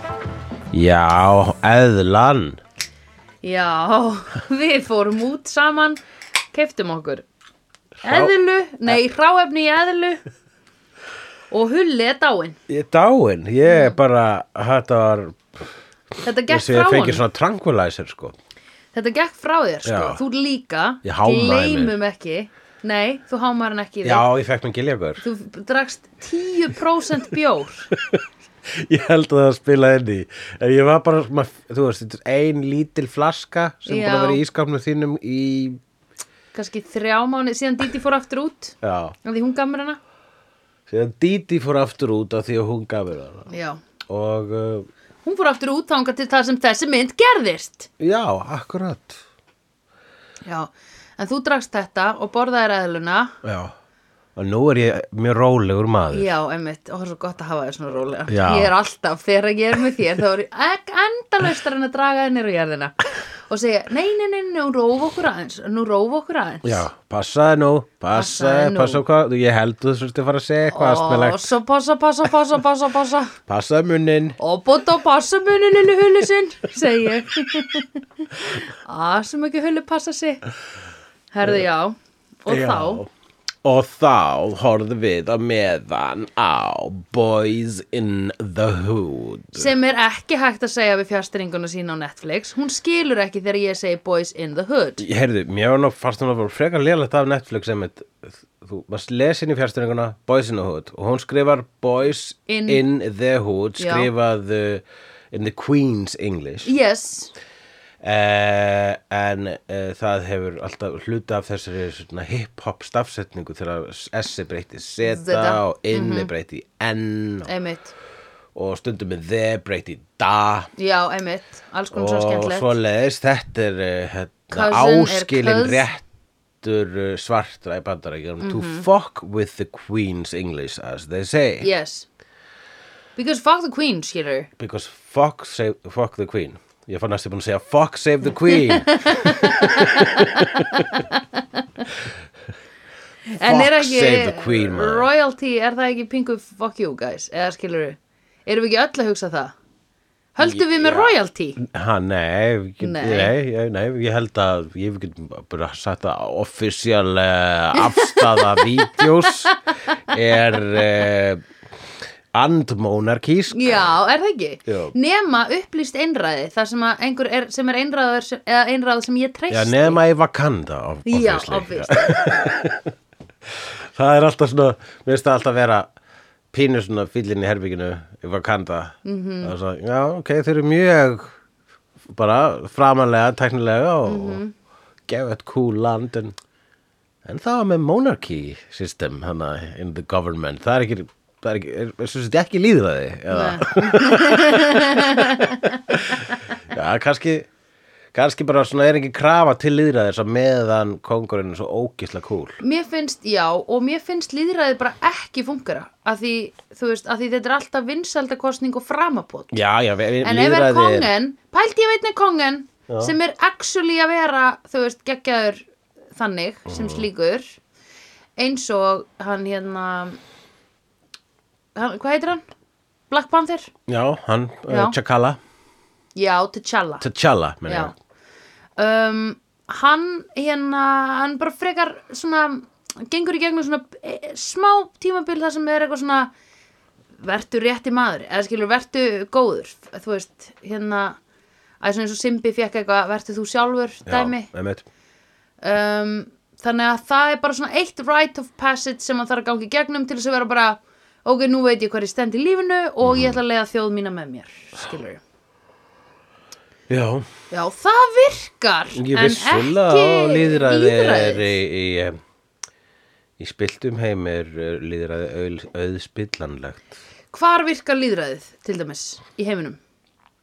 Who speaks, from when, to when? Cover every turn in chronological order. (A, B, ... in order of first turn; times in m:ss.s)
0:00.7-0:02.6 A
0:03.4-0:06.0 B
0:06.5-0:07.2 B
0:08.0-0:08.3 A
0:08.0-0:10.2 B
0:11.5-0:12.6 B
0:12.7-0:15.6 A
0:13.7-0:13.9 B
0:16.2-0:17.2 B
0:16.5-0:18.3 A
0:18.9-0:24.2 B
0:19.8-0:20.2 A
0:21.0-0:21.9 A
0:24.0-0:25.2 A
0:25.2-0:27.9 B
0:28.0-0:35.8 A
0:33.8-0:34.4 B
0:36.5-0:40.0 B
0:38.8-0:39.2 A
0:40.9-0:43.5 A
0:43.5-0:43.8 B
0:44.1-0:44.9 A
0:45.2-0:47.9 B
0:48.0-0:49.2 A
0:50.4-0:53.4 B
0:53.4-0:53.7 A
0:54.4-0:56.3 A
0:56.1-1:06.8 B
0:58.3-0:58.7 A
1:06.6-1:11.4 A
1:08.1-1:09.0 B
1:10.7-1:13.4 B
1:13.5-1:14.4 A
1:14.4-1:20.4 B
1:21.3-1:23.0 B
1:22.5-1:23.1 A
1:23.6-1:29.7 A
1:29.5-1:35.0 B
1:35.0-1:46.7 A
1:42.5-1:42.8 B
1:43.8-1:44.1 B
1:46.6-1:47.3 B
1:48.0-1:57.5 A
1:55.0-1:56.3 B
1:57.4-1:57.9 B
1:58.5-2:00.7 A
2:00.8-2:02.7 B
2:01.9-2:06.0 A
2:04.5-2:05.8 B
2:06.6-2:11.7 A
2:08.4-2:08.8 B
2:11.6-2:12.1 B
2:13.2-2:14.5 B
2:14.6-2:20.8 A
2:18.5-2:21.9 B
2:23.3-2:29.5 B
2:23.4-2:25.1 A
2:30.3-2:31.6 B
2:30.4-2:39.6 A
2:32.8-2:33.4 B
2:37.8-2:40.1 B
2:40.1-2:41.4 A
2:42.3-2:43.9 A
2:43.5-2:50.0 B
2:44.7-2:44.9 A
2:49.5-2:52.9 A
2:51.0-2:52.3 B
2:53.4-2:55.9 A
2:56.5-3:01.3 A
2:59.0-2:59.5 B
3:02.1-3:04.4 A
3:04.0-3:04.5 B
3:05.1-3:06.4 A
3:07.2-3:17.5 A
3:13.3-3:16.5 B
3:18.1-3:22.6 A
3:22.6-3:29.6 B
3:29.5-3:31.1 A
3:30.2-3:37.6 B
3:32.9-3:33.1 A
3:36.7-3:37.0 A
3:38.4-3:40.2 B
3:41.7-3:42.4 B
3:43.1-3:43.7 B
3:43.9-3:45.4 A
3:44.7-3:45.0 B
3:46.1-3:47.1 B
3:47.0-3:47.9 A
3:47.6-3:47.9 B
3:48.8-3:56.3 B
3:57.2-4:01.2 B
4:01.8-4:04.5 B
4:04.0-4:04.8 A
4:05.6-4:15.2 B
4:13.0-4:13.4 A
4:16.9-4:17.3 A
4:17.5-4:21.6 B
4:18.9-4:22.2 A
4:23.4-4:26.8 A
4:27.3-4:29.8 B